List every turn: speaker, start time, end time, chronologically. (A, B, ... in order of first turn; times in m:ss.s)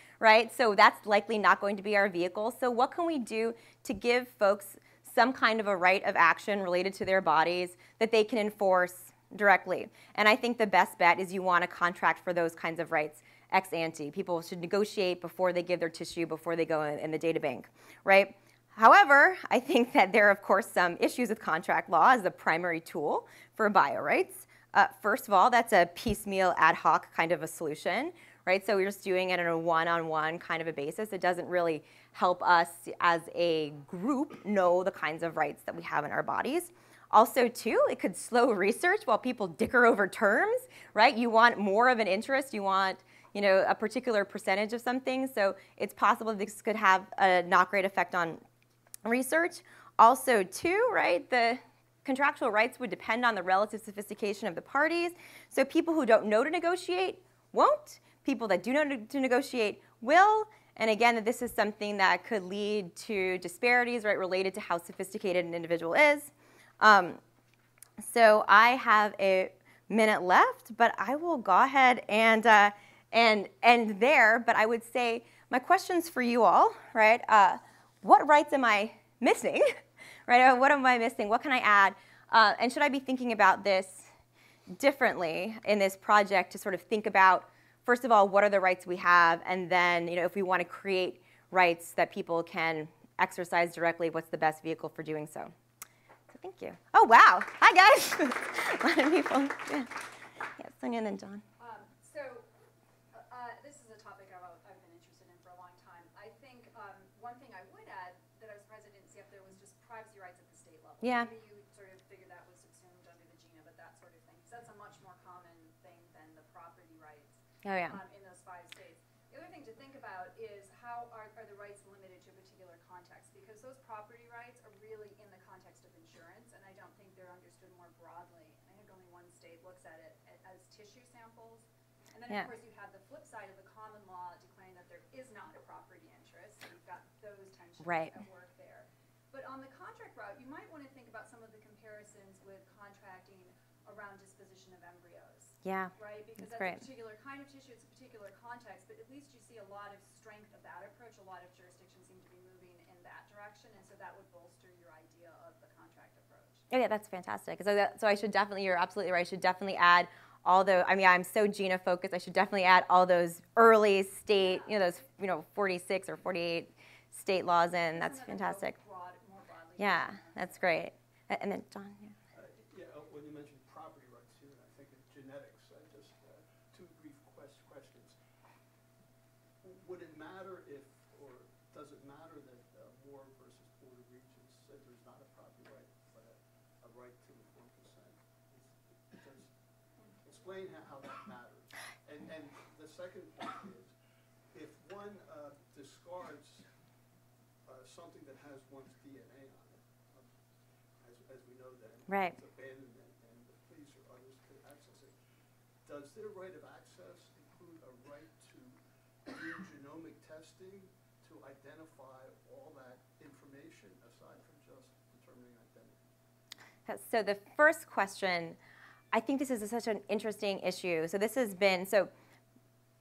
0:00.2-0:48.4 A
0:49.0-1:07.2 A
1:08.0-1:19.7 A
1:20.3-1:24.1 A
1:24.7-1:35.5 A
1:36.4-1:40.0 A
1:40.6-1:41.4 A
1:41.6-1:42.5 B
1:43.1-2:36.7 B
1:51.0-1:51.3 A
1:57.6-1:58.0 A
2:17.8-2:18.2 A
2:25.6-2:26.9 A
2:36.7-2:48.8 A
2:44.3-2:45.1 B
2:47.9-2:50.8 B
2:49.8-2:52.2 A
2:52.3-2:58.2 C
2:59.6-3:09.5 C
3:10.2-3:13.9 C
3:14.5-3:16.7 C
3:17.7-3:20.3 C
3:21.0-3:25.2 C
3:22.1-3:22.3 A
3:25.8-3:36.0 C
3:36.9-3:38.6 A
3:39.1-3:42.1 A